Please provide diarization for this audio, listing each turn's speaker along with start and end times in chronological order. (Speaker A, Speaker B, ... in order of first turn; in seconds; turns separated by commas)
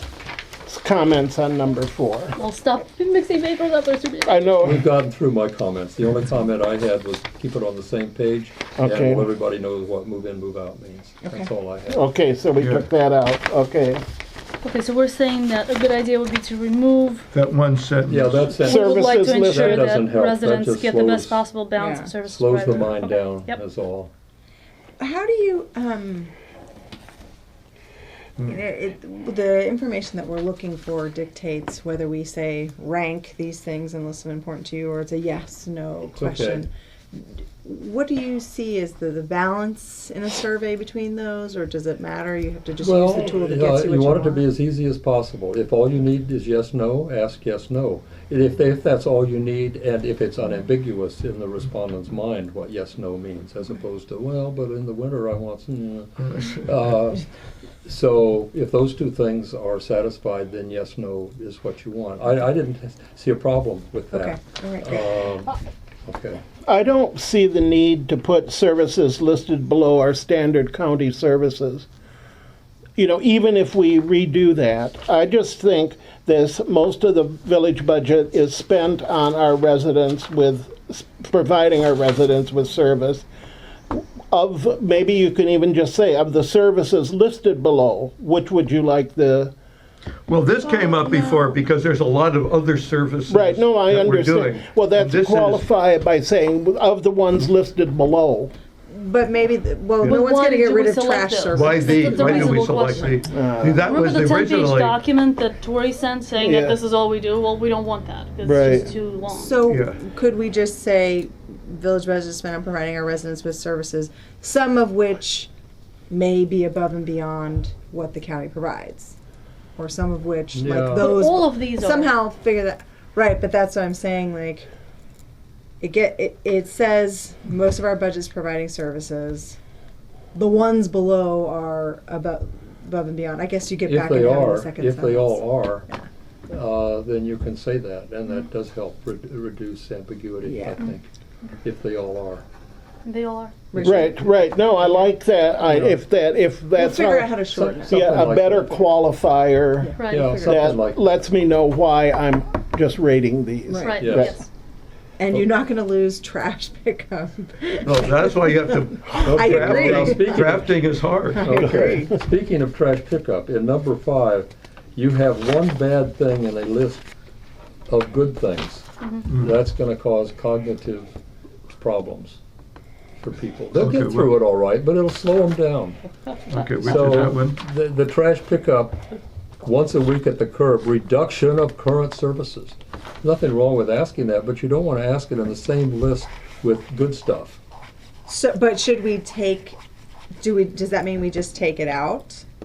Speaker A: 0.7-2.4, Speaker B: 2.4-4.7, Speaker A: 4.2-4.9, Speaker C: 4.6-12.1, Speaker A: 8.8-9.3, Speaker D: 11.2-11.5, Speaker A: 11.9-14.0, Speaker E: 12.6-12.8, Speaker B: 14.6-17.2, Speaker E: 17.3-18.6, Speaker C: 18.1-21.4, Speaker A: 18.6-20.0, Speaker B: 18.6-23.6, Speaker D: 21.8-22.1, Speaker C: 22.2-24.1, Speaker D: 25.0-26.3, Speaker D: 28.5-44.5, Speaker C: 36.1-36.6, Speaker C: 42.8-57.3, Speaker C: 57.9-65.5, Speaker D: 64.1-65.0, Speaker C: 66.1-66.4, Speaker A: 66.7-71.9, Speaker A: 73.0-83.3, Speaker A: 83.9-89.5, Speaker E: 90.3-95.7, Speaker D: 90.6-91.6, Speaker A: 93.3-98.5, Speaker D: 98.9-103.2, Speaker B: 100.1-103.2, Speaker E: 101.5-105.0, Speaker A: 103.3-104.0, Speaker B: 103.9-109.6, Speaker A: 106.4-106.8, Speaker A: 108.4-108.9, Speaker D: 109.3-115.5, Speaker E: 109.7-110.0, Speaker D: 116.1-119.2, Speaker D: 119.8-124.7, Speaker C: 120.5-121.2, Speaker B: 120.9-122.2, Speaker D: 125.8-129.6, Speaker D: 130.3-136.1, Speaker C: 133.8-135.9, Speaker C: 136.5-141.1, Speaker D: 140.4-140.9, Speaker C: 141.6-142.4, Speaker B: 143.1-143.7, Speaker D: 143.7-144.3, Speaker C: 143.7-144.1, Speaker A: 143.8-154.3, Speaker C: 145.7-146.0, Speaker D: 146.8-148.3, Speaker C: 147.5-148.9, Speaker D: 149.8-150.7, Speaker B: 150.0-150.4, Speaker C: 150.1-151.0, Speaker D: 153.7-154.1, Speaker B: 153.8-154.5, Speaker C: 154.0-154.4, Speaker D: 155.2-160.7, Speaker E: 157.8-161.6, Speaker C: 159.2-167.1, Speaker D: 161.3-162.2, Speaker C: 167.9-171.1, Speaker E: 169.3-169.6, Speaker C: 171.8-172.4, Speaker C: 173.2-176.0, Speaker E: 173.7-174.3, Speaker E: 176.5-177.6, Speaker C: 176.8-179.0, Speaker C: 179.6-187.6, Speaker D: 188.3-189.8, Speaker D: 190.4-192.4